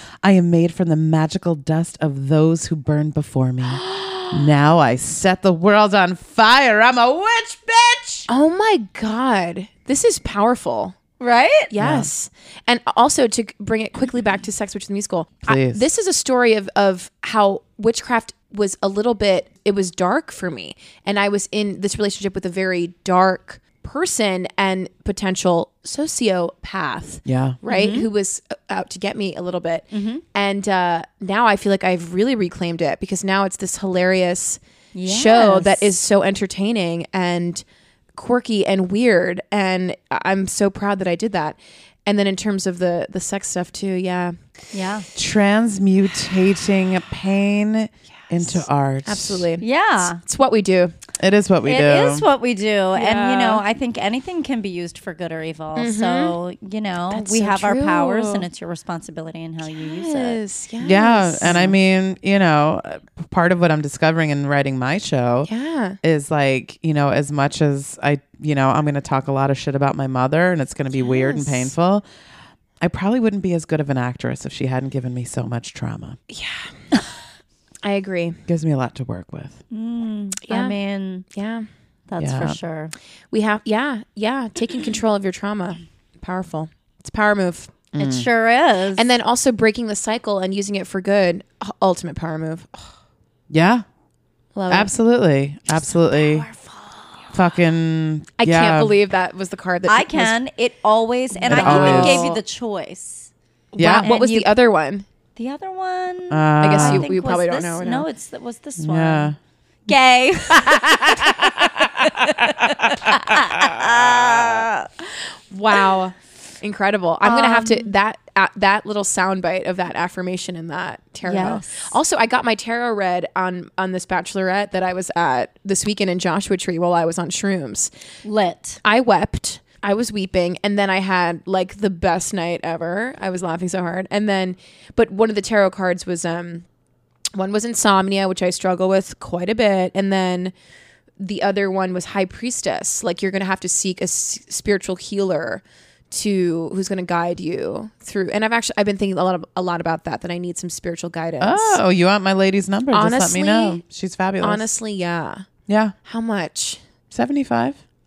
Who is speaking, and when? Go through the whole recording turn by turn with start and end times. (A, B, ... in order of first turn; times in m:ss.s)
0:00.2-0:08.3 A
0:08.3-0:11.0 B
0:11.2-0:11.7 C
0:11.7-0:37.6 B
0:11.8-0:12.1 A
0:15.5-0:15.9 A
0:27.3-0:27.6 A
0:27.7-0:28.1 C
0:29.9-0:30.2 C
0:34.9-0:35.9 C
0:38.2-0:44.4 B
0:44.7-0:45.1 C
0:45.2-0:49.5 A
0:48.4-0:50.9 B
0:49.6-0:50.2 C
0:51.2-0:52.2 A
0:51.6-1:00.4 C
0:52.9-0:53.6 B
0:55.8-0:56.4 B
0:57.1-0:58.5 B
0:59.8-1:01.8 B
1:00.8-1:05.5 A
1:05.5-1:06.0 B
1:06.0-1:12.1 A
1:10.9-1:11.7 B
1:12.8-1:16.2 A
1:16.3-1:16.7 B
1:17.8-1:18.4 B
1:18.5-1:19.6 A
1:19.7-1:21.3 C
1:20.5-1:20.8 B
1:21.3-1:21.7 B
1:22.1-1:22.9 C
1:22.2-1:22.6 A
1:23.3-1:27.9 B
1:27.9-1:28.3 A
1:28.0-1:29.1 C
1:29.0-1:32.9 B
1:33.5-1:33.8 A
1:34.6-1:34.9 B
1:34.7-1:36.5 A
1:36.3-1:36.9 B
1:37.3-1:38.9 A
1:38.4-1:40.4 B
1:39.9-1:43.3 C
1:41.4-1:42.4 B
1:41.5-1:42.3 A
1:43.7-1:45.1 B
1:43.8-1:44.1 A
1:44.0-1:44.5 C
1:45.4-1:49.3 C
1:46.3-1:47.1 A
1:46.6-1:48.1 B
1:48.8-1:49.4 A
1:49.9-1:55.1 C
1:50.5-1:51.7 A
1:52.5-1:53.9 A
1:55.5-2:07.9 B
1:57.2-1:57.9 C
2:01.2-2:02.0 C
2:08.2-2:08.8 C
2:08.8-2:16.6 B
2:17.3-2:20.5 B
2:21.2-2:31.8 B
2:31.4-2:34.7 A
2:32.9-2:33.8 B
2:34.4-2:35.4 B
2:35.7-2:36.0 A
2:36.0-2:36.8 B
2:37.1-2:37.8 A